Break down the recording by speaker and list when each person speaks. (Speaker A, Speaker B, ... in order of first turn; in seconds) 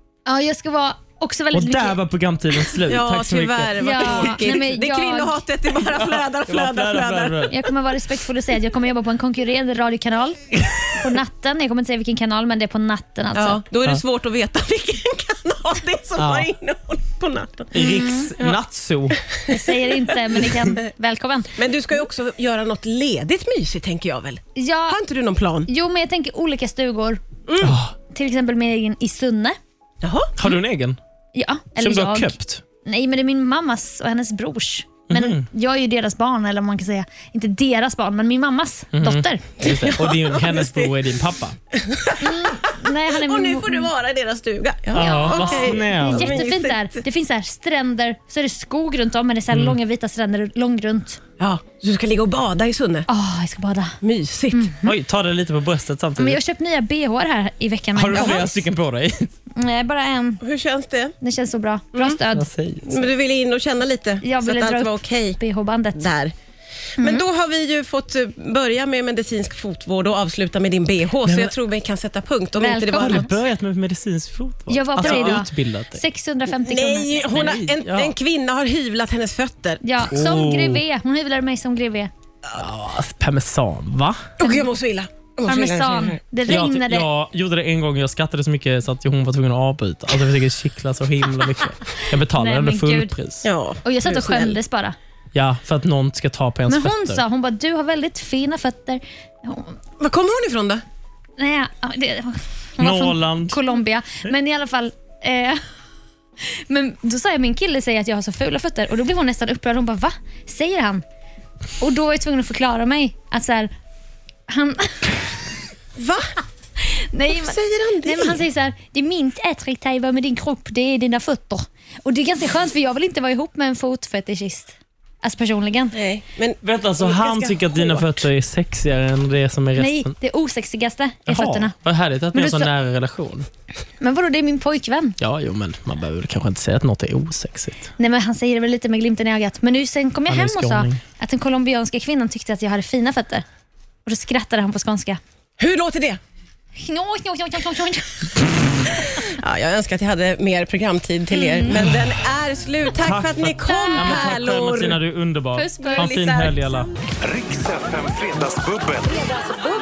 Speaker A: 0.3-2.0, 3.8-5.4, 7.5-10.4, 10.9-13.6, 17.8-18.3, 19.5-21.5, 24.6-25.0, 25.7-27.2, 28.1-29.6, 31.4-39.5, 42.2-43.9, 45.0-51.2, 53.1-54.0, 54.5-54.9, 56.2-58.6, 59.6-60.4, 61.2-62.5, 64.2-66.1, 67.0-67.2, 72.6-73.3, 74.7-77.6, 79.8-82.1, 84.4-84.7, 85.5-87.1, 92.3-93.1, 93.8-95.0, 96.7-99.8, 101.4-105.6, 106.4-111.0, 111.8-113.7, 114.5-115.2, 116.8-126.0, 129.8-131.8, 132.3-132.7, 134.0-135.2, 138.0-143.4, 144.1-145.2, 146.8-148.5, 151.4-151.7, 153.7-154.3, 155.5-156.4
Speaker B: 1.5-4.4, 5.9-7.6, 16.2-16.5, 17.7-19.2, 27.6-27.9, 30.4-31.0, 31.8-32.6, 35.1-35.5, 38.9-41.6, 44.9-46.4, 49.5-49.8, 54.8-56.4, 57.9-59.3, 62.3-63.0, 71.2-71.5, 72.9-76.0, 77.3-78.2, 80.1-80.8, 82.5-84.3, 86.5-93.5, 95.3-97.2, 102.8-103.6, 126.6-130.1, 131.3-133.5, 135.2-137.8, 140.3-141.0, 151.7-152.1, 152.9-156.9
Speaker C: 2.9-7.5, 13.3-18.6, 19.5-20.1, 21.6-25.7, 27.5-27.8, 30.0-30.3, 39.6-40.9, 41.7-47.0, 51.4-53.1, 54.0-54.7, 58.1-58.5, 60.4-61.2, 62.9-65.4, 66.0-66.3, 67.0-73.3, 75.0-75.3, 76.5-79.8, 84.4-86.2, 93.4-94.6, 100.0-100.8, 116.0-116.3, 117.3-118.4, 125.9-128.2, 145.6-146.2, 148.9-155.0, 155.8-156.6
Speaker D: 157.2-159.4